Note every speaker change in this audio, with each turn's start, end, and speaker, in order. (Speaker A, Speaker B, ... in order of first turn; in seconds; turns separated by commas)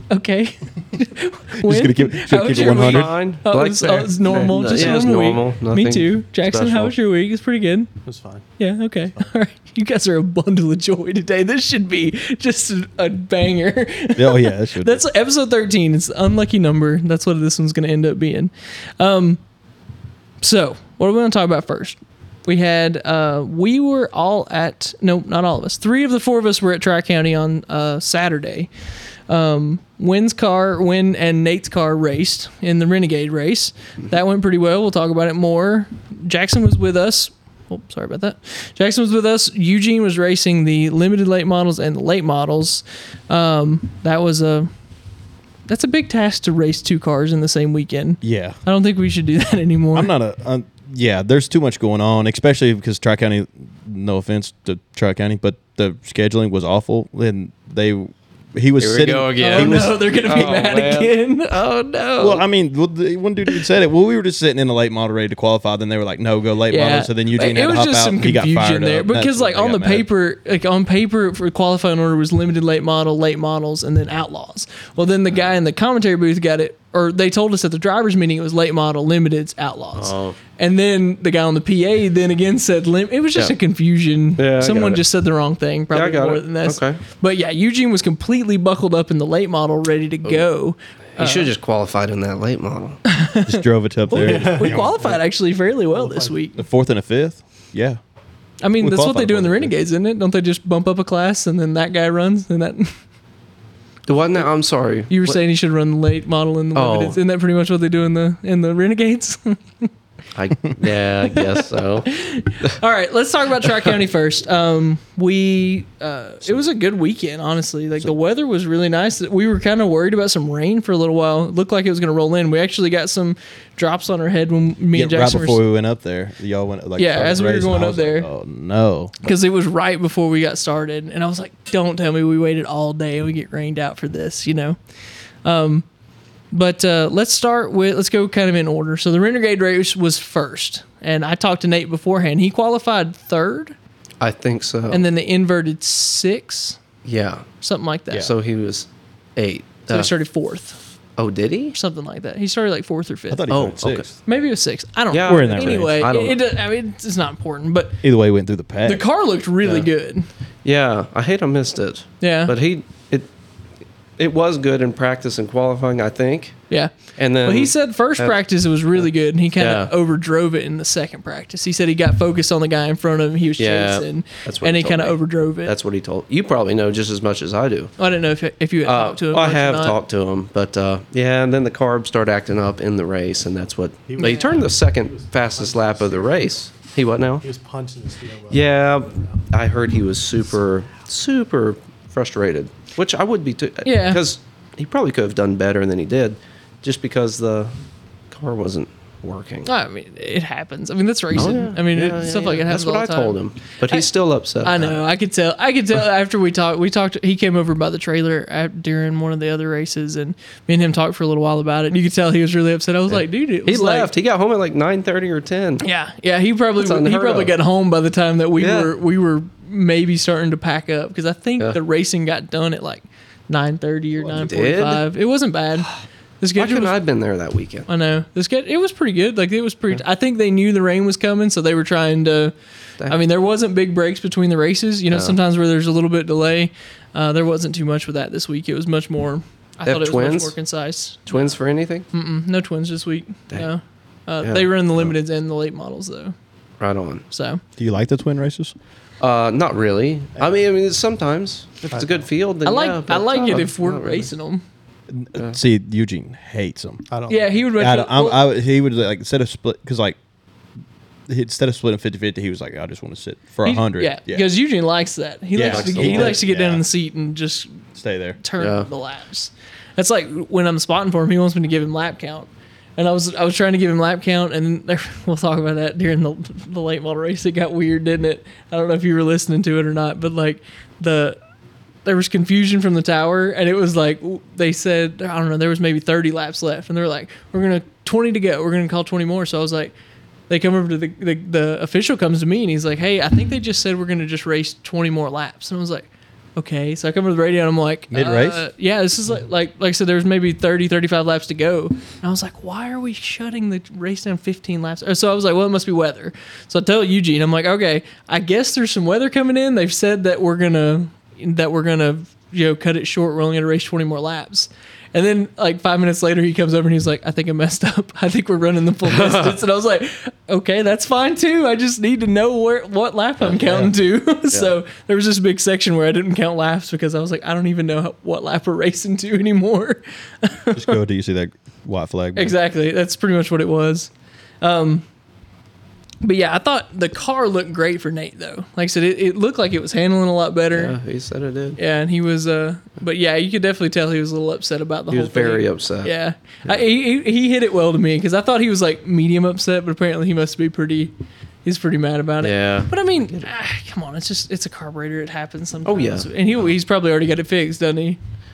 Speaker A: 0.1-7.9, Speaker B: 1.6-3.1, Speaker C: 2.6-6.9, Speaker D: 4.3-4.9, Speaker D: 8.1-8.4, Speaker A: 8.6-19.4, Speaker B: 14.2-15.0, Speaker A: 20.4-28.7, Speaker A: 29.3-44.7, Speaker A: 45.7-50.1, Speaker B: 48.2-48.6, Speaker B: 49.9-60.6, Speaker C: 58.8-62.4, Speaker A: 59.4-61.6, Speaker B: 62.2-70.1, Speaker A: 66.7-91.5, Speaker C: 80.0-80.4, Speaker C: 84.4-85.0, Speaker C: 85.9-87.0, Speaker C: 91.2-93.0, Speaker A: 93.1-96.6, Speaker B: 93.4-94.9, Speaker D: 94.1-95.2, Speaker D: 95.9-96.3, Speaker B: 96.6-98.0, Speaker A: 98.6-102.9, Speaker B: 98.8-99.7, Speaker C: 104.1-105.4, Speaker A: 105.1-109.9, Speaker C: 106.7-107.2, Speaker C: 110.3-112.1, Speaker A: 111.2-125.6, Speaker C: 113.6-113.9, Speaker B: 124.9-129.3, Speaker A: 127.0-128.3, Speaker A: 129.2-134.8, Speaker A: 135.4-135.8, Speaker A: 136.5-143.7, Speaker C: 144.2-145.0, Speaker A: 144.9-146.8, Speaker C: 147.0-147.4, Speaker A: 147.6-148.3, Speaker C: 148.1-150.1, Speaker A: 149.9-150.8, Speaker C: 151.2-151.7, Speaker A: 151.7-153.5, Speaker B: 153.3-154.1, Speaker C: 153.5-154.1, Speaker A: 154.2-158.0, Speaker C: 155.1-156.4, Speaker B: 155.2-156.0, Speaker B: 158.0-159.0, Speaker A: 158.8-160.3, Speaker C: 160.6-163.3, Speaker A: 162.2-162.5, Speaker C: 164.2-166.6, Speaker A: 166.7-175.7, Speaker C: 167.2-168.3, Speaker C: 168.9-169.9, Speaker C: 173.6-177.9, Speaker A: 178.0-179.9, Speaker C: 178.8-187.4, Speaker D: 184.0-186.7, Speaker A: 184.2-184.6, Speaker D: 187.4-189.5, Speaker C: 188.5-197.7, Speaker A: 193.8-194.2, Speaker C: 198.3-199.7, Speaker A: 199.7-204.1, Speaker C: 201.3-205.0, Speaker A: 204.6-214.1, Speaker C: 213.1-215.8, Speaker A: 215.8-226.9, Speaker C: 216.8-217.5, Speaker C: 218.6-218.9, Speaker C: 224.2-225.0, Speaker C: 226.6-227.9, Speaker A: 227.9-232.5, Speaker A: 233.1-241.6, Speaker C: 235.1-235.4, Speaker C: 239.8-240.6, Speaker C: 241.3-242.1, Speaker A: 242.1-246.3, Speaker C: 244.4-245.1, Speaker C: 246.8-247.2, Speaker A: 247.3-247.6, Speaker B: 247.8-248.7, Speaker C: 249.2-254.3, Speaker D: 251.9-252.2, Speaker A: 252.6-254.6, Speaker B: 255.1-257.0, Speaker D: 257.1-257.5, Speaker A: 257.3-258.4, Speaker B: 257.8-260.2, Speaker B: 261.3-264.5, Speaker A: 263.6-267.8, Speaker B: 265.5-266.8, Speaker C: 265.6-266.4, Speaker B: 267.9-268.4, Speaker A: 268.4-281.4, Speaker C: 268.6-268.9, Speaker A: 282.0-289.9, Speaker A: 290.5-330.9, Speaker B: 298.1-298.6, Speaker C: 319.1-319.6, Speaker C: 323.4-323.9, Speaker B: 330.7-332.5, Speaker A: 332.4-334.1, Speaker A: 334.6-335.0, Speaker A: 336.2-341.0, Speaker C: 340.7-341.8, Speaker A: 341.8-351.1, Speaker C: 345.1-346.1, Speaker A: 351.6-358.2, Speaker C: 352.4-353.5, Speaker C: 355.8-356.7